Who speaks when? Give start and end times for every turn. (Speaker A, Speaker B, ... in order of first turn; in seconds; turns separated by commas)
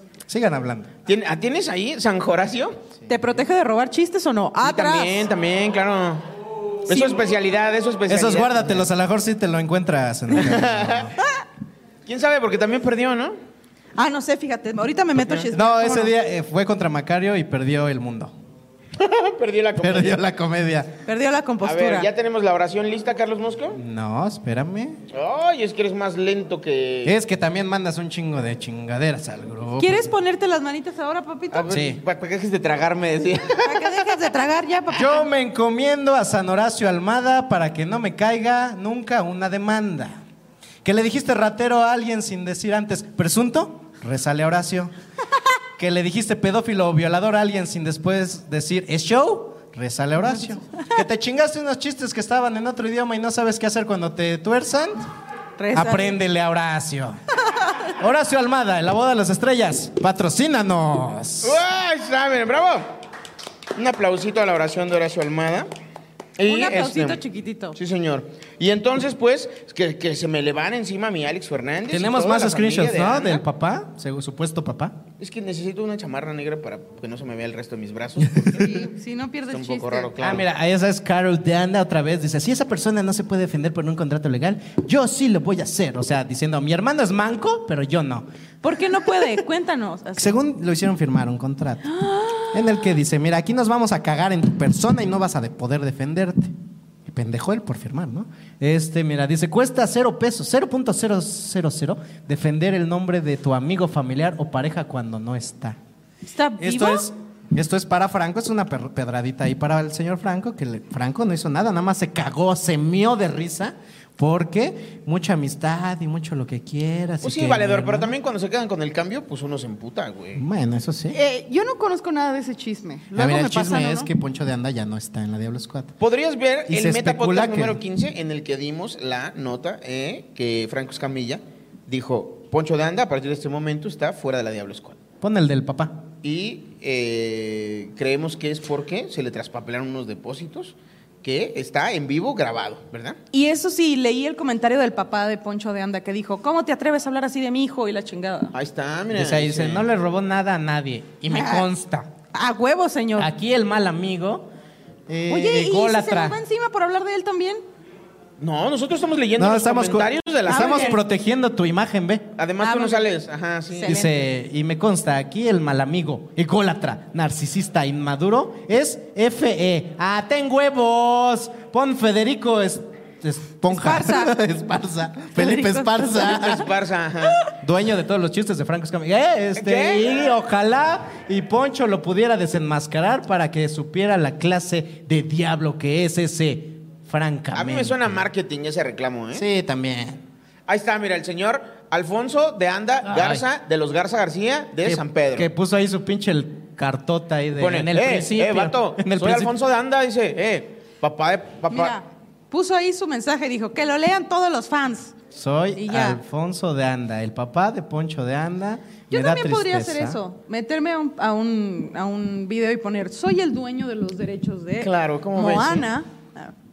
Speaker A: 0.3-0.9, Speaker B: 1.1-2.8, Speaker C: 3.1-5.2, Speaker B: 4.6-6.2, Speaker B: 6.8-8.9, Speaker C: 6.9-7.2, Speaker A: 8.1-11.1, Speaker B: 10.4-11.1, Speaker B: 12.1-13.3, Speaker C: 14.0-16.1, Speaker B: 15.2-15.5, Speaker A: 15.5-18.3, Speaker B: 19.0-20.2, Speaker A: 19.8-21.0, Speaker C: 21.1-22.1, Speaker B: 21.6-23.8, Speaker A: 23.7-25.0, Speaker B: 25.1-27.1, Speaker A: 27.0-30.1, Speaker C: 29.8-31.7, Speaker B: 31.5-34.0, Speaker A: 31.7-32.0, Speaker C: 33.6-35.3, Speaker A: 34.9-40.2, Speaker A: 40.8-44.9, Speaker A: 45.8-55.1, Speaker C: 55.6-56.1, Speaker A: 55.7-57.2, Speaker A: 58.0-61.6, Speaker B: 61.4-62.9, Speaker B: 63.8-65.7, Speaker B: 66.4-67.2, Speaker C: 66.4-67.8, Speaker B: 67.7-73.4, Speaker A: 71.9-75.0, Speaker B: 75.2-78.9, Speaker C: 78.5-80.1, Speaker B: 79.5-80.4, Speaker A: 80.2-88.2, Speaker C: 88.6-90.4, Speaker A: 90.2-91.9, Speaker C: 91.9-92.7, Speaker A: 92.5-96.5, Speaker A: 97.0-105.8, Speaker C: 106.2-107.1, Speaker A: 106.6-118.1, Speaker B: 117.2-120.4, Speaker A: 120.4-121.2, Speaker C: 121.1-124.1, Speaker A: 123.1-125.9, Speaker B: 126.0-135.0, Speaker A: 126.7-127.8, Speaker A: 135.2-136.0, Speaker B: 136.2-143.2, Speaker C: 143.3-148.5, Speaker B: 148.5-149.8, Speaker A: 149.1-152.1, Speaker C: 151.3-151.7, Speaker C: 152.3-153.3, Speaker A: 153.2-154.5, Speaker A: 155.1-156.4, Speaker C: 155.3-157.6, Speaker B: 158.4-161.0, Speaker A: 159.4-162.3, Speaker C: 160.5-161.0, Speaker B: 162.4-164.1, Speaker C: 162.6-163.1, Speaker C: 163.7-164.1, Speaker A: 163.8-176.7, Speaker C: 173.7-174.3, Speaker C: 175.3-176.3, Speaker B: 176.2-177.4, Speaker A: 177.6-188.2, Speaker B: 179.6-180.1, Speaker B: 187.5-189.4, Speaker A: 189.3-190.2, Speaker B: 190.7-195.5, Speaker A: 193.1-193.4, Speaker A: 194.8-199.5, Speaker B: 197.6-201.9, Speaker C: 201.7-205.1, Speaker A: 205.3-210.2, Speaker C: 205.8-206.2, Speaker C: 209.1-216.5, Speaker B: 214.8-215.8